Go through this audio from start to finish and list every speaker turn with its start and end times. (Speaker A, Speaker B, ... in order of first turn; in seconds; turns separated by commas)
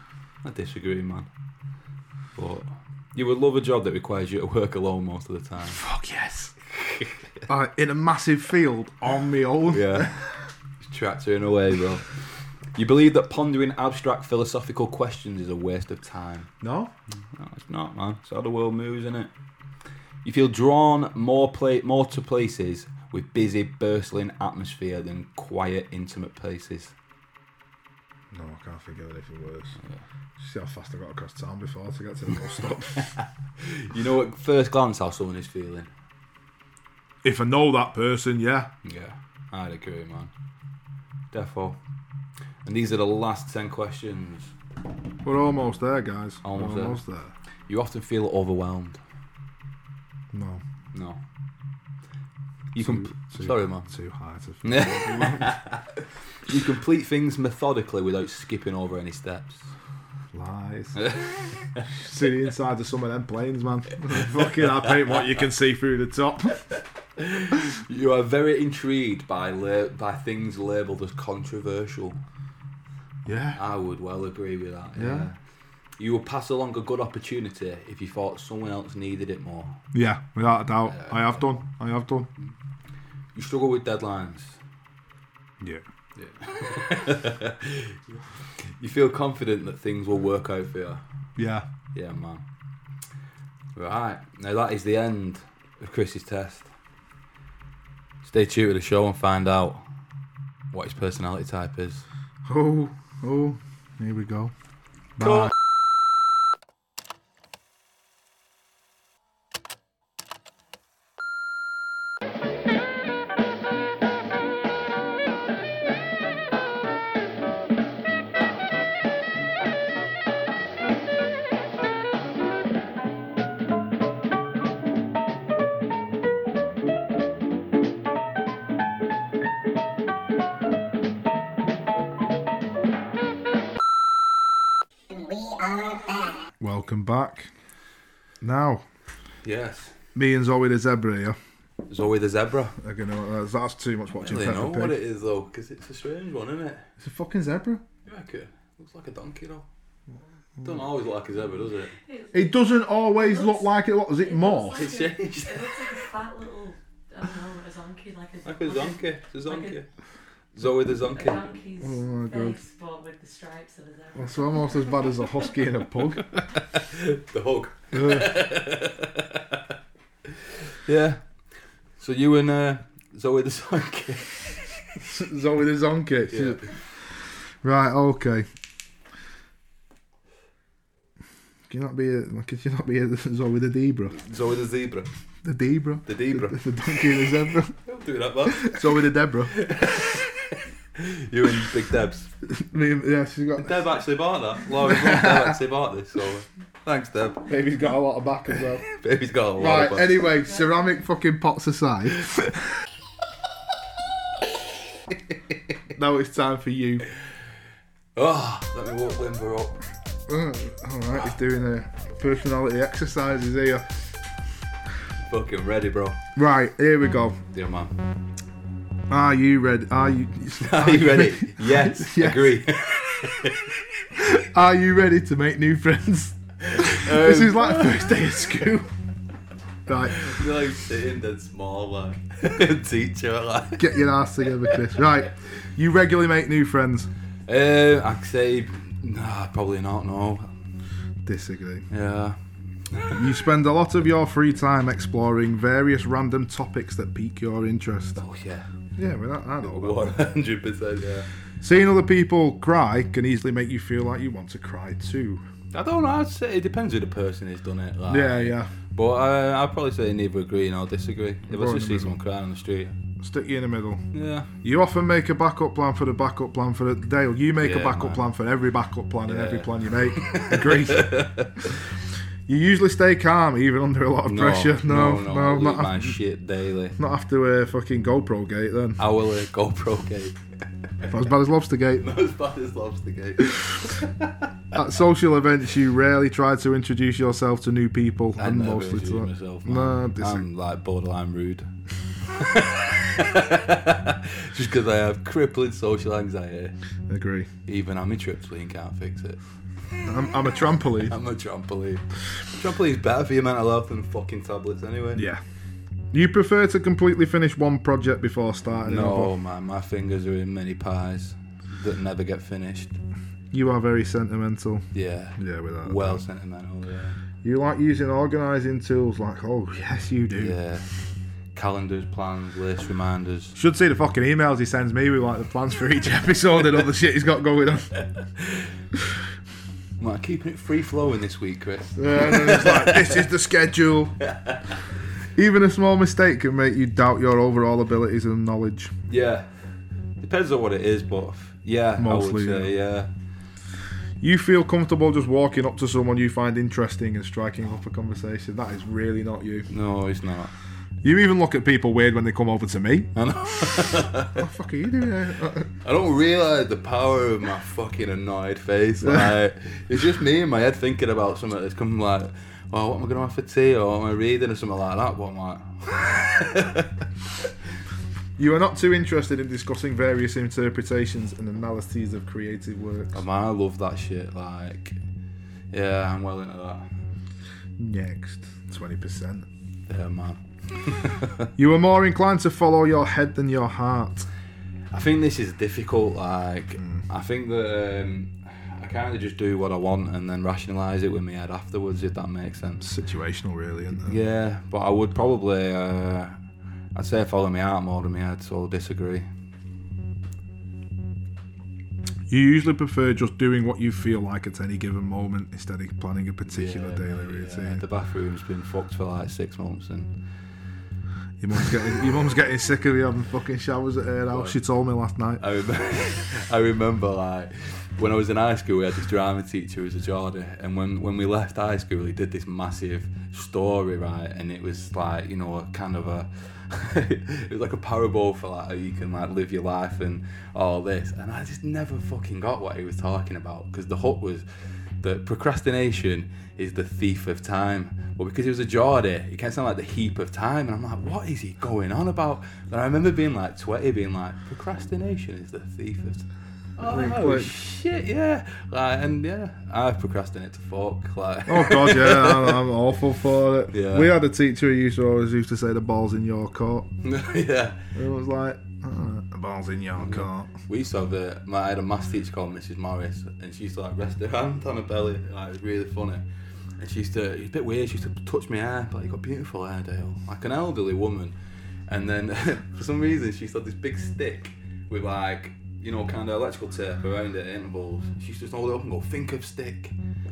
Speaker A: 0.4-1.3, Speaker A: 2.4-5.8, Speaker B: 5.8-6.5, Speaker A: 6.7-7.3, Speaker B: 7.5-10.3, Speaker A: 9.7-10.1, Speaker A: 10.8-12.1, Speaker A: 12.7-16.5, Speaker B: 16.6-16.9, Speaker A: 17.4-19.3, Speaker A: 20.2-26.9, Speaker B: 28.3-29.8, Speaker B: 30.4-33.1, Speaker A: 33.0-35.9, Speaker B: 37.2-38.7, Speaker A: 38.8-40.3, Speaker A: 41.3-41.8, Speaker A: 42.6-44.5, Speaker B: 45.2-47.3, Speaker A: 46.4-47.0, Speaker A: 47.7-49.0, Speaker B: 50.3-50.6, Speaker A: 50.9-51.2, Speaker A: 52.7-53.9, Speaker B: 52.8-55.5, Speaker A: 54.6-59.7, Speaker B: 60.3-61.0, Speaker A: 61.0-62.0, Speaker B: 61.9-66.7, Speaker A: 67.2-72.2, Speaker B: 73.2-73.6, Speaker A: 73.5-75.3, Speaker B: 75.0-75.3, Speaker A: 76.0-79.8, Speaker B: 79.9-82.3, Speaker A: 80.9-81.3, Speaker A: 83.3-84.6, Speaker A: 86.2-91.0, Speaker B: 91.4-91.7, Speaker A: 91.9-92.4, Speaker A: 93.8-96.7, Speaker A: 98.2-99.8, Speaker A: 100.7-102.0, Speaker B: 102.5-104.5, Speaker B: 105.2-105.5, Speaker A: 105.2-105.5, Speaker B: 136.6-137.5, Speaker B: 138.4-138.8, Speaker A: 139.4-139.9, Speaker B: 140.1-141.3, Speaker A: 141.9-142.7, Speaker B: 142.8-144.9, Speaker A: 144.2-146.9, Speaker B: 147.0-147.8, Speaker A: 148.0-149.7, Speaker A: 150.6-151.9, Speaker C: 152.0-159.8, Speaker B: 152.3-154.9, Speaker A: 154.7-155.9, Speaker A: 158.4-159.9, Speaker A: 160.5-161.5, Speaker C: 160.9-165.3, Speaker B: 161.8-162.6, Speaker B: 164.1-166.4, Speaker A: 166.7-169.7, Speaker B: 167.9-168.3, Speaker A: 170.7-171.4, Speaker A: 172.0-175.0, Speaker B: 175.0-176.6, Speaker A: 176.3-176.7, Speaker B: 177.6-178.5, Speaker B: 181.7-184.2, Speaker A: 184.1-185.1, Speaker B: 185.4-187.7, Speaker A: 186.1-186.7, Speaker A: 187.8-188.8, Speaker B: 188.5-189.6, Speaker A: 189.5-192.3, Speaker B: 192.5-193.8, Speaker A: 193.6-197.5, Speaker B: 194.8-195.6, Speaker B: 197.5-198.8, Speaker A: 198.9-200.3, Speaker B: 199.6-202.7, Speaker B: 205.9-207.1, Speaker A: 208.2-209.8, Speaker B: 210.3-214.0, Speaker A: 215.2-216.2, Speaker B: 216.3-217.4, Speaker A: 217.5-217.9, Speaker B: 219.1-222.6, Speaker A: 220.6-223.8, Speaker B: 224.1-228.9, Speaker A: 226.6-228.1, Speaker B: 229.9-230.3, Speaker A: 230.1-234.0, Speaker B: 233.8-237.1, Speaker A: 237.5-240.5, Speaker B: 241.2-241.8, Speaker A: 241.9-243.2, Speaker B: 243.1-248.2, Speaker A: 248.2-248.7, Speaker B: 249.0-250.2, Speaker A: 249.6-251.3, Speaker B: 251.6-255.4, Speaker A: 255.7-262.9, Speaker B: 258.1-258.7, Speaker B: 261.5-262.1, Speaker B: 263.2-264.0, Speaker A: 264.1-264.5, Speaker B: 264.6-271.3, Speaker A: 267.6-268.2, Speaker A: 269.3-271.7, Speaker B: 272.5-276.1, Speaker A: 274.2-277.0, Speaker B: 277.0-279.0, Speaker A: 279.0-280.4, Speaker B: 281.0-282.1, Speaker A: 282.0-284.3, Speaker B: 284.7-290.4, Speaker A: 288.4-291.7, Speaker A: 292.2-296.7, Speaker B: 297.1-297.5, Speaker A: 297.7-299.4, Speaker B: 300.0-301.1, Speaker A: 301.0-305.3, Speaker B: 305.1-305.4, Speaker B: 306.1-309.3, Speaker A: 308.9-312.9, Speaker B: 313.5-314.9, Speaker A: 314.9-317.1, Speaker B: 315.4-316.2, Speaker B: 317.4-320.6, Speaker A: 320.4-320.9, Speaker A: 321.5-323.6, Speaker B: 323.6-328.0, Speaker A: 328.4-328.7, Speaker A: 330.0-333.2, Speaker B: 331.9-334.1, Speaker A: 334.2-334.6, Speaker B: 335.3-338.9, Speaker A: 339.1-339.5, Speaker A: 340.2-343.1, Speaker B: 342.0-342.7, Speaker B: 344.2-349.7, Speaker A: 349.7-350.5, Speaker B: 351.0-353.1, Speaker A: 353.1-354.4, Speaker B: 354.3-355.7, Speaker A: 355.8-367.5, Speaker B: 368.4-373.2, Speaker A: 373.1-375.0, Speaker A: 375.7-376.9, Speaker B: 377.8-379.5, Speaker A: 379.9-381.5, Speaker B: 381.6-384.3, Speaker A: 384.9-392.9, Speaker B: 392.8-394.1, Speaker A: 394.0-396.4, Speaker A: 396.9-399.2, Speaker B: 402.3-407.8, Speaker A: 406.5-410.1, Speaker B: 411.4-415.4, Speaker A: 414.3-414.5, Speaker A: 415.4-452.7, Speaker B: 446.8-447.5, Speaker B: 451.4-456.9, Speaker A: 453.7-454.1, Speaker A: 457.0-457.9, Speaker B: 457.9-460.5, Speaker A: 460.0-466.2, Speaker A: 466.8-471.3, Speaker A: 471.9-479.9